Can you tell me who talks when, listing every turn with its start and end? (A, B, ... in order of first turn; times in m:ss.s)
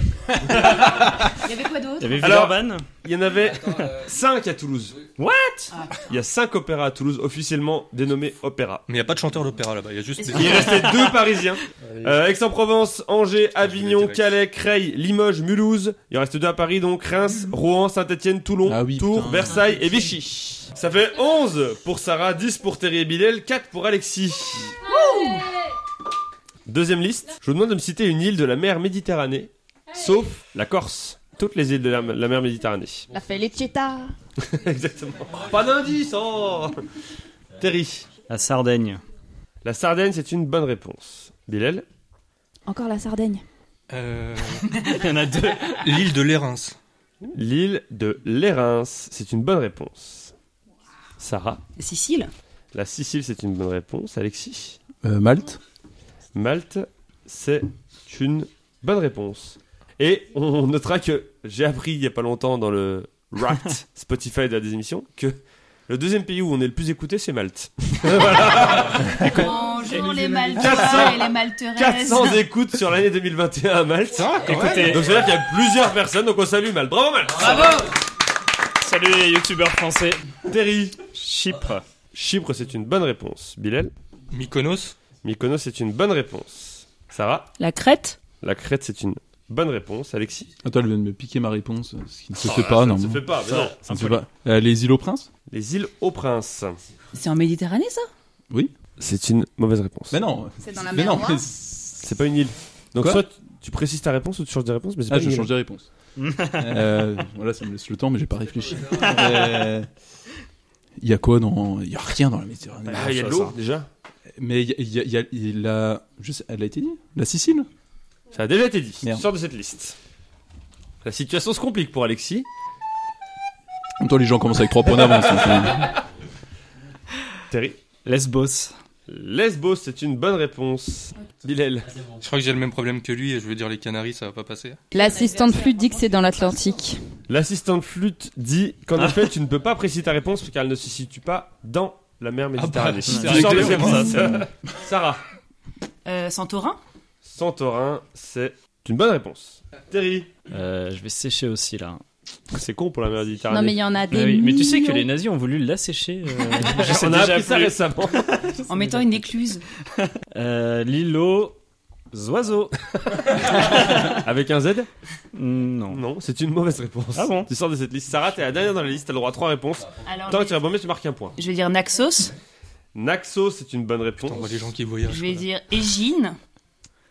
0:00.4-0:01.1 A
0:01.4-0:02.3 B
0:02.0-0:02.8 C
0:02.2-0:05.0 A
0:05.2-0:05.7 C
0:05.7-0:06.0 B
0:06.1-0:08.8 A
0:08.9-0:10.8 D
0:10.2-0:10.6 B
0:10.3-0:24.7 A
0:13.6-0:14.3 D
0:18.6-0:19.6 E
0:24.8-0:25.5 B
0:26.7-0:33.1 A
0:33.1-0:34.1 F
0:34.4-0:36.8 A
0:37.6-0:38.1 A
0:38.3-0:39.0 C
0:39.6-0:41.8 A
0:42.6-0:43.4 F
0:43.9-0:44.6 D
0:44.7-0:45.8 C
0:45.7-0:46.8 D
0:47.2-0:50.3 A
0:51.2-0:51.6 A
0:51.8-0:52.3 B
0:52.7-0:54.8 A
0:55.0-0:55.6 E
0:56.3-1:09.3 A
1:09.2-1:11.0 C
1:09.2-1:12.4 B
1:10.6-1:17.8 A
1:14.2-1:15.0 D
1:14.4-1:15.1 C
1:17.5-1:17.8 B
1:18.8-1:20.2 C
1:20.4-1:21.0 A
1:21.1-1:21.8 C
1:22.1-1:23.9 A
1:24.3-1:25.0 D
1:25.2-1:27.5 A
1:27.6-1:28.2 B
1:28.4-1:30.5 A
1:30.6-1:35.3 E
1:32.4-1:33.8 A
1:33.5-1:34.2 C
1:35.5-1:36.8 A
1:37.1-1:38.1 B
1:39.0-1:40.2 A
1:40.1-1:42.1 E
1:40.6-1:41.4 B
1:42.0-1:45.5 A
1:43.0-1:43.2 E
1:45.1-1:45.9 E
1:46.2-1:46.7 C
1:46.6-1:49.9 E
1:51.0-1:53.2 E
1:52.9-1:53.6 C
1:52.9-1:53.9 A
1:54.4-1:57.7 E
1:58.3-2:00.0 A
2:01.0-2:02.5 A
2:04.0-2:05.9 E
2:07.5-2:07.8 A
2:08.0-2:08.7 C
2:09.1-2:11.9 A
2:12.2-2:14.8 D
2:14.9-2:17.0 F
2:15.0-2:16.7 B
2:17.3-2:25.2 A
2:22.6-2:24.4 D
2:23.1-2:24.4 C
2:26.0-2:26.8 B
2:27.2-2:30.3 A
2:30.5-2:32.0 C
2:32.5-2:33.8 A
2:33.5-2:35.0 F
2:34.1-2:39.2 C
2:36.6-2:38.3 A
2:38.7-2:39.6 B
2:40.2-2:41.6 C
2:42.1-2:42.8 C
2:43.3-2:44.2 C
2:43.6-2:44.9 A
2:45.3-2:46.0 C
2:45.9-2:51.3 A
2:47.1-2:47.5 C
2:50.0-2:50.6 B
2:51.4-2:52.3 B
2:52.9-2:54.7 A
2:54.2-2:55.4 D
2:55.1-2:56.4 B